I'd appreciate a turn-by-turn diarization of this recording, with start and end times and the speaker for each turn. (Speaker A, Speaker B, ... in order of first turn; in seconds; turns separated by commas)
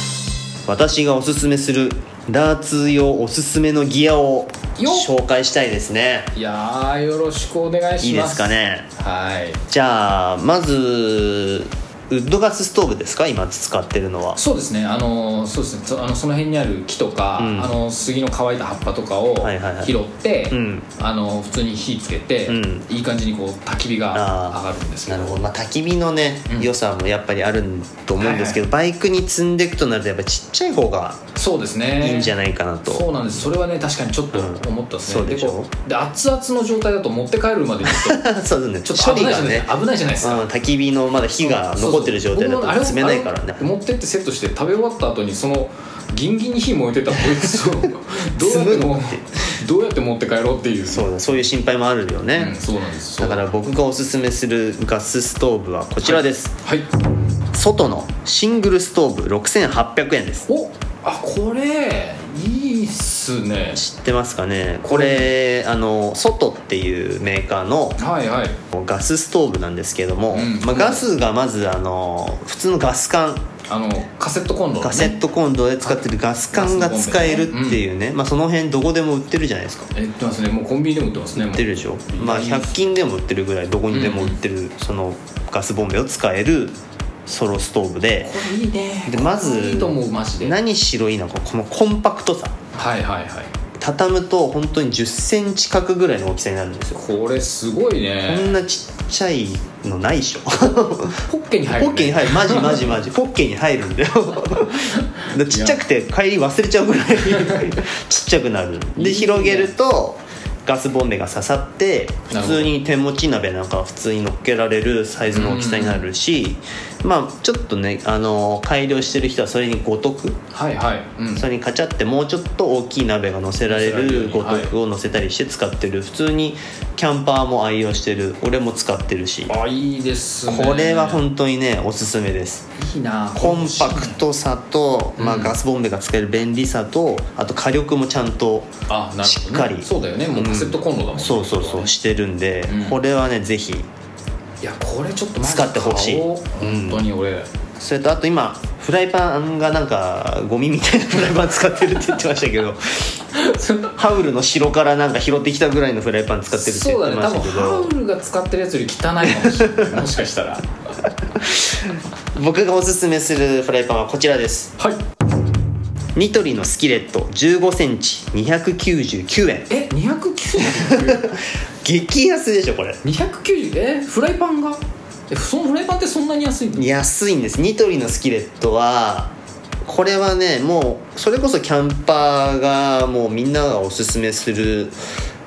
Speaker A: 0.7-6.3, Speaker B: 4.8-5.1, Speaker B: 6.3-9.6, Speaker A: 8.0-8.9, Speaker A: 9.7-14.4, Speaker B: 14.4-25.4, Speaker A: 17.4-17.8, Speaker A: 19.4-19.9, Speaker A: 20.5-20.9, Speaker A: 22.5-22.9, Speaker A: 24.1-31.2, Speaker B: 28.2-28.6, Speaker B: 31.4-32.4, Speaker A: 32.0-33.1, Speaker B: 32.9-38.3, Speaker A: 34.3-35.7, Speaker A: 37.9-43.6, Speaker B: 38.9-40.5, Speaker B: 41.4-51.1, Speaker A: 48.4-49.2, Speaker A: 50.9-52.6, Speaker B: 52.4-53.5, Speaker A: 53.2-56.5, Speaker B: 56.0-56.9, Speaker A: 57.5-60.5, Speaker B: 60.5-63.8, Speaker A: 63.8-68.0, Speaker B: 64.8-65.3, Speaker B: 68.0-68.6, Speaker A: 68.7-73.5, Speaker B: 70.3-71.1, Speaker B: 73.7-75.2, Speaker A: 74.8-79.9, Speaker B: 76.5-77.8, Speaker B: 79.9-82.8, Speaker A: 81.4-88.3, Speaker B: 83.9-84.4, Speaker B: 88.2-90.6, Speaker A: 89.1-92.6, Speaker B: 92.7-93.5, Speaker A: 93.8-97.0, Speaker B: 96.9-98.6, Speaker A: 98.3-120.4, Speaker B: 101.2-102.9, Speaker B: 105.0-105.8, Speaker B: 107.3-107.7, Speaker B: 109.0-109.7, Speaker B: 112.3-112.7, Speaker B: 115.3-116.0, Speaker B: 120.5-121.5, Speaker A: 121.3-129.5, Speaker B: 123.7-124.7, Speaker B: 129.5-131.2, Speaker A: 130.5-132.7, Speaker B: 132.8-134.2, Speaker A: 133.4-138.7, Speaker B: 135.2-135.6, Speaker B: 138.9-141.9, Speaker A: 139.2-143.9, Speaker B: 142.7-143.0, Speaker B: 144.6-147.5, Speaker A: 145.4-147.1, Speaker A: 147.8-153.2, Speaker B: 153.3-154.0, Speaker A: 153.9-157.9, Speaker B: 156.5-160.7, Speaker A: 159.3-159.9, Speaker A: 161.4-164.7, Speaker A: 166.2-169.7, Speaker B: 169.7-171.3, Speaker A: 170.6-173.0, Speaker B: 173.0-176.9, Speaker A: 176.8-184.9